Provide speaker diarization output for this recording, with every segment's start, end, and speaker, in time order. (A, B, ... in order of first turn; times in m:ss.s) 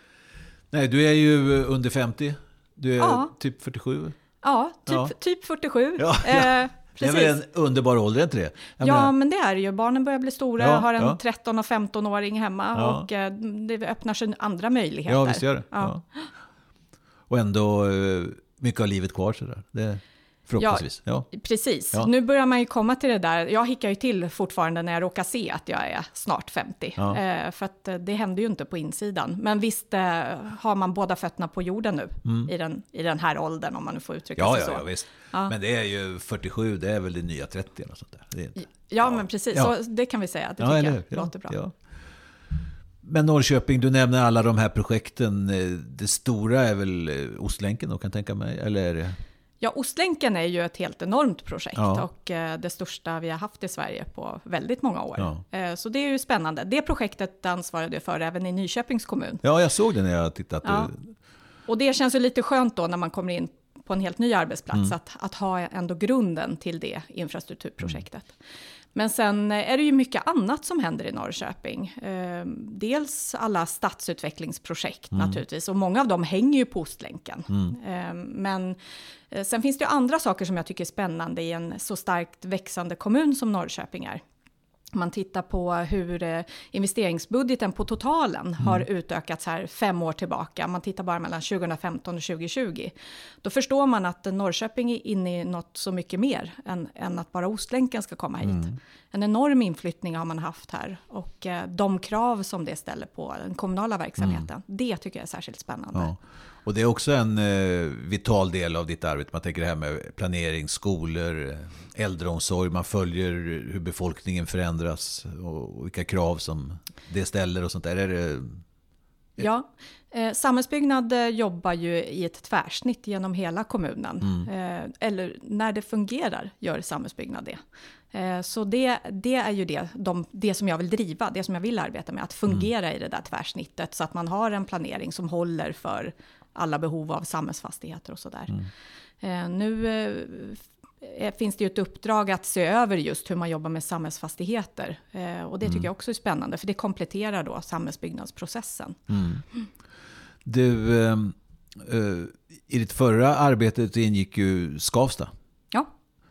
0:00.7-0:04.2 A
0:03.0-0:03.3 B
0:04.4-0:07.4 B
0:04.9-0:05.1 A
0:06.0-0:09.1 A
0:08.8-0:16.3 B
0:10.6-0:11.2 A
0:12.7-0:13.0 A
0:15.1-0:16.0 A
0:17.3-0:21.3 A
0:20.6-0:35.5 B
0:32.2-0:32.5 A
0:34.4-0:39.7 A
0:38.6-0:41.6 B
0:40.6-0:41.7 A
0:43.0-0:49.2 A
0:49.6-0:59.4 B
0:51.8-0:52.0 A
0:59.4-1:01.1 A
1:00.6-1:00.9 B
1:01.6-1:08.3 B
1:08.9-1:18.8 B
1:15.1-1:15.4 A
1:19.3-1:24.2 B
1:24.9-1:46.1 B
1:38.4-1:38.7 A
1:44.2-1:44.4 A
1:45.9-1:58.6 A
1:59.4-2:07.6 B
2:08.1-2:18.5 B
2:19.2-2:29.0 B
2:25.6-2:25.9 A
2:29.1-2:29.4 A
2:30.4-2:35.3 A